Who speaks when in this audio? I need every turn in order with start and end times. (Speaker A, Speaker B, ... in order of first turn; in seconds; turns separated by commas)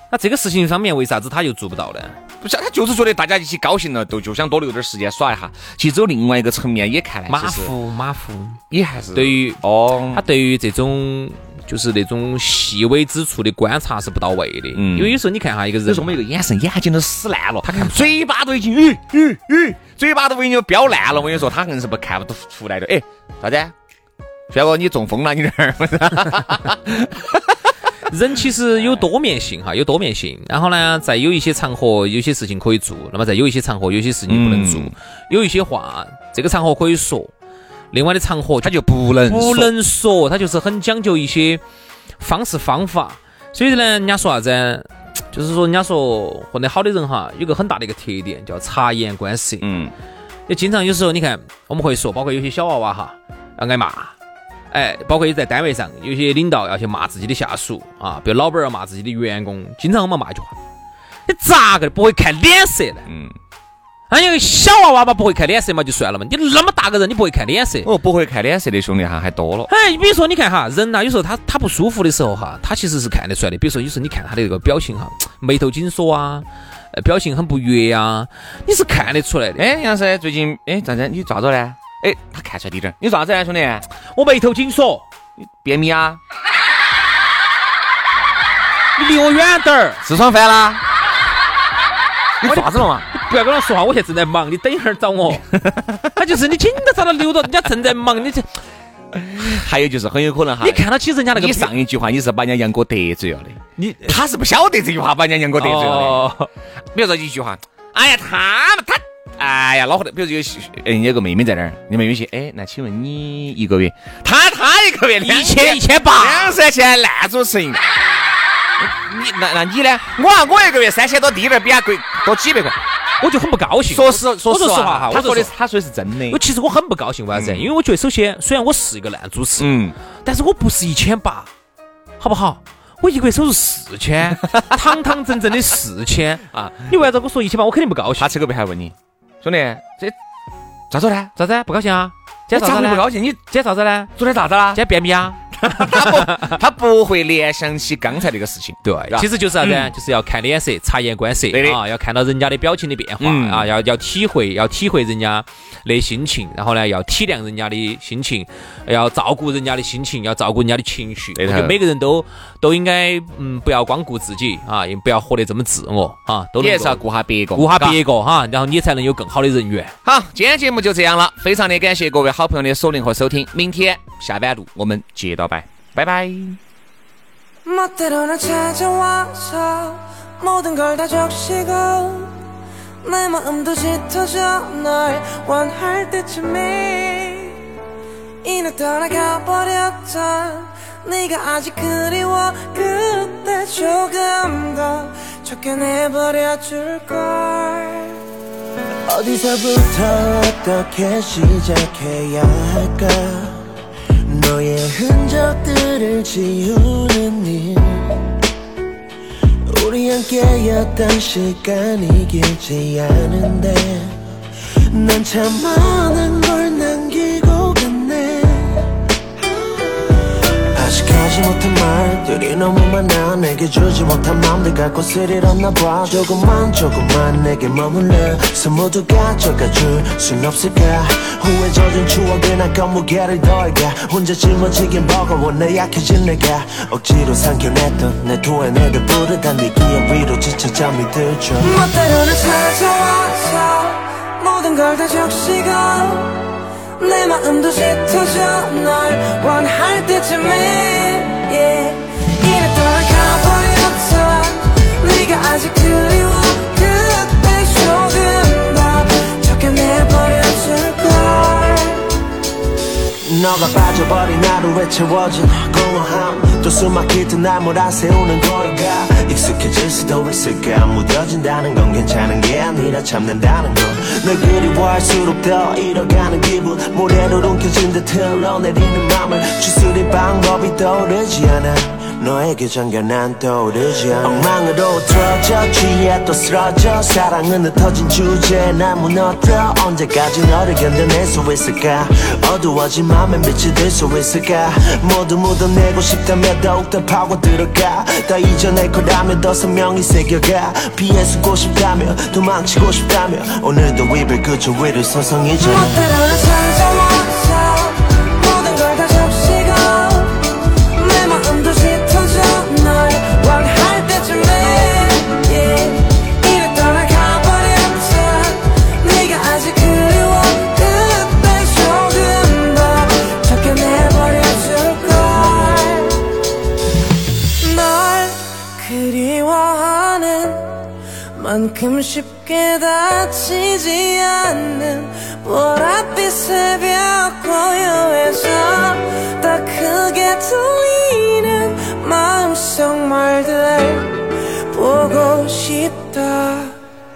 Speaker A: 0.1-2.2, Speaker B: 2.4-7.7, Speaker A: 7.3-8.6, Speaker B: 8.7-10.2, Speaker A: 9.1-9.6, Speaker A: 10.1-16.2, Speaker B: 14.7-15.2, Speaker B: 15.9-23.7, Speaker A: 17.6-18.1, Speaker B: 24.5-27.5, Speaker A: 28.1-37.3, Speaker B: 34.3-34.9, Speaker A: 37.9-38.7, Speaker B: 38.6-39.7, Speaker A: 39.2-41.6, Speaker A: 42.2-49.7, Speaker B: 49.6-49.9, Speaker A: 50.5-54.1, Speaker A: 54.7-60.5, Speaker A: 61.3-63.1, Speaker B: 63.1-63.3, Speaker A: 64.1-67.9, Speaker B: 67.8-69.7, Speaker A: 69.7-79.6, Speaker B: 79.6-83.8, Speaker A: 84.1-85.0, Speaker B: 85.4-86.2, Speaker A: 89.0-90.0, Speaker B: 90.0-90.8, Speaker B: 92.4-93.1, Speaker A: 92.4-95.4, Speaker B: 95.4-96.1, Speaker A: 96.1-98.5, Speaker B: 99.1-106.2, Speaker A: 100.6-101.7, Speaker A: 103.8-104.2, Speaker A: 105.6-106.5, Speaker B: 106.9-117.8, Speaker A: 115.2-116.6, Speaker B: 118.8-122.8, Speaker A: 123.2-125.5, Speaker B: 123.9-126.4, Speaker A: 126.3-129.7, Speaker B: 127.3-127.7, Speaker B: 129.6-129.9, Speaker A: 130.2-131.5, Speaker A: 132.2-138.3, Speaker B: 134.4-135.1, Speaker B: 136.5-136.9, Speaker B: 138.2-140.1, Speaker B: 140.9-141.3, Speaker A: 141.3-144.1, Speaker B: 142.5-143.4, Speaker B: 144.2-144.8, Speaker A: 144.7-146.6, Speaker B: 145.5-149.9, Speaker A: 148.8-167.0, Speaker B: 151.5-151.8, Speaker B: 153.2-153.7, Speaker B: 161.3-161.8, Speaker B: 166.6-168.0, Speaker A: 167.5-169.9, Speaker B: 170.0-176.6, Speaker C: 177.6-182.3, Speaker C: 183.0-187.7, Speaker C: 188.4-198.2, Speaker D: 199.1-203.7, Speaker D: 204.2-208.3, Speaker D: 209.7-214.2, Speaker D: 214.9-241.8, Speaker C: 241.6-262.1, Speaker D: 263.2-306.0, Speaker C: 305.6-326.4, Speaker C: 327.6-346.8